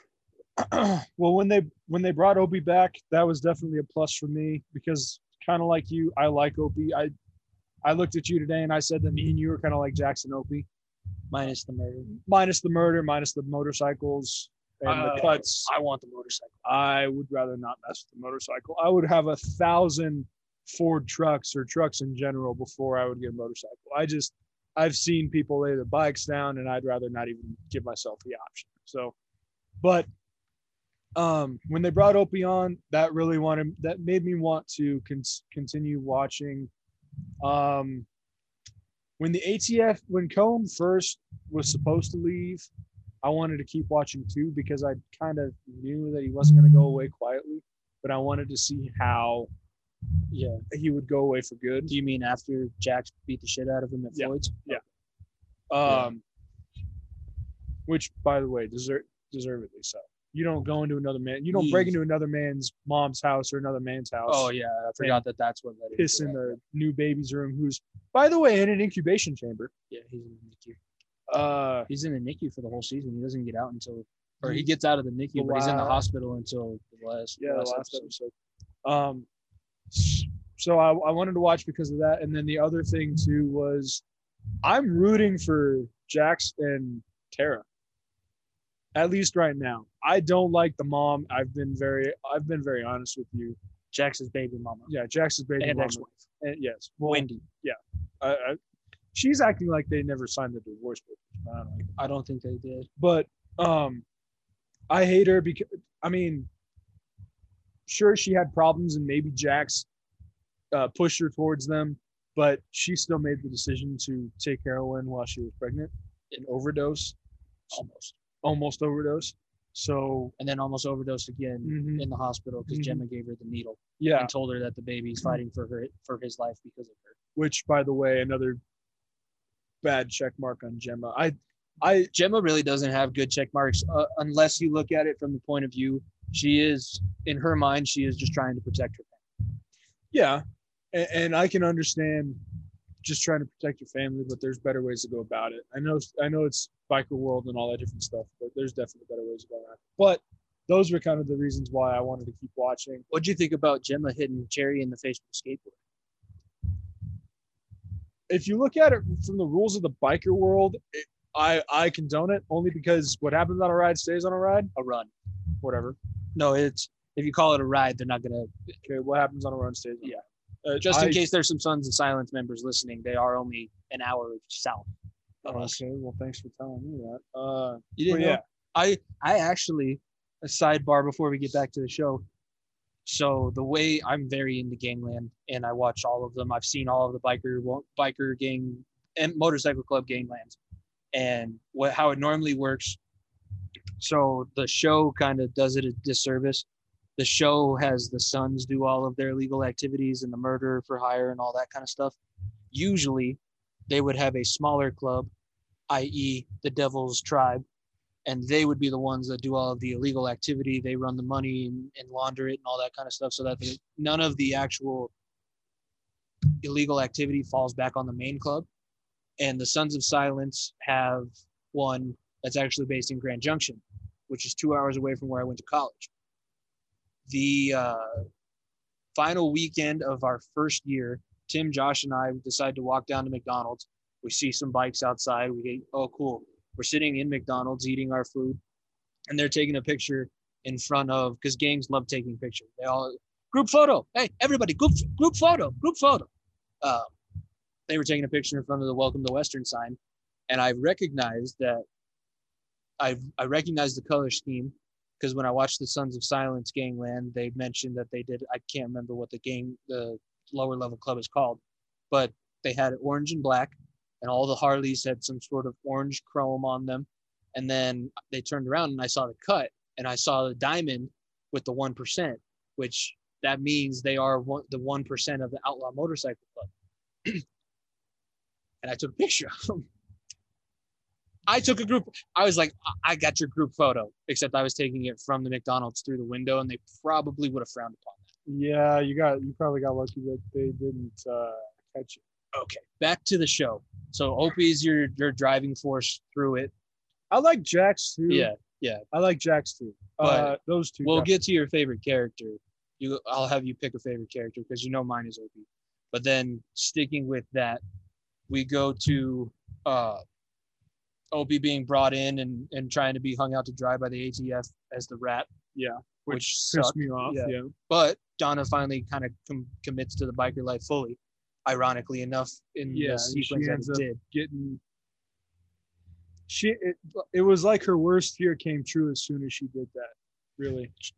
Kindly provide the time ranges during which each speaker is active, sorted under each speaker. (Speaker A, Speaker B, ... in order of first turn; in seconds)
Speaker A: 0.6-7.1, 7.8-10.7, 12.1-15.7, 16.6-29.1, 29.8-30.1, 31.1-36.7, 37.4-38.1, 39.2-42.7, 43.2-49.5, 50.7-51.9, 54.1-54.8, 55.7-56.2, 57.9-65.2, 65.9-69.7, 71.3-71.9, 74.4-74.7, 75.3-76.0, 77.4-78.3, 78.8-79.3, 79.9-84.0, 84.6-87.7, 88.9-93.6, 94.9-98.6, 99.1-101.9, 103.0-104.0, 104.9-106.5, 107.9-109.9, 110.7-117.2, 118.4-120.3, 121.6-122.1, 122.7-123.0, 124.0-124.3, 127.3-128.6, 129.8-132.1, 140.1-142.4, 143.0-153.0, 158.3-164.7, 165.6-166.0, 168.8-171.2, 175.4-178.4, 288.4-292.2, 297.3-298.5, 299.1-301.3, 315.7-317.7, 322.9-324.8, 326.5-330.9
Speaker B: 11.3-12.1, 14.8-16.5, 50.3-50.6, 51.9-54.8, 55.9-56.1, 61.5-61.9, 64.3-66.6, 69.9-70.8, 71.9-78.1, 93.9-94.9, 95.6-96.1, 97.0-97.4, 102.0-102.9, 117.7-118.1, 120.4-127.2, 132.1-139.2, 153.1-155.8, 164.7-165.1, 166.3-168.8, 170.8-174.9, 175.4-175.8, 177.9-182.2, 183.1-190.6, 191.1-193.0, 194.0-196.7, 197.2-202.2, 202.7-205.3, 205.9-207.6, 208.2-215.1, 216.6-218.7, 219.4-226.1, 227.3-228.2, 229.1-238.6, 239.3-246.3, 246.8-247.1, 247.9-250.0, 250.5-251.8, 253.0-261.6, 262.1-276.7, 278.8-279.9, 281.5-288.2, 292.5-296.7, 298.3-299.0, 300.2-307.8, 308.5-310.2, 311.3-315.5, 316.3-324.2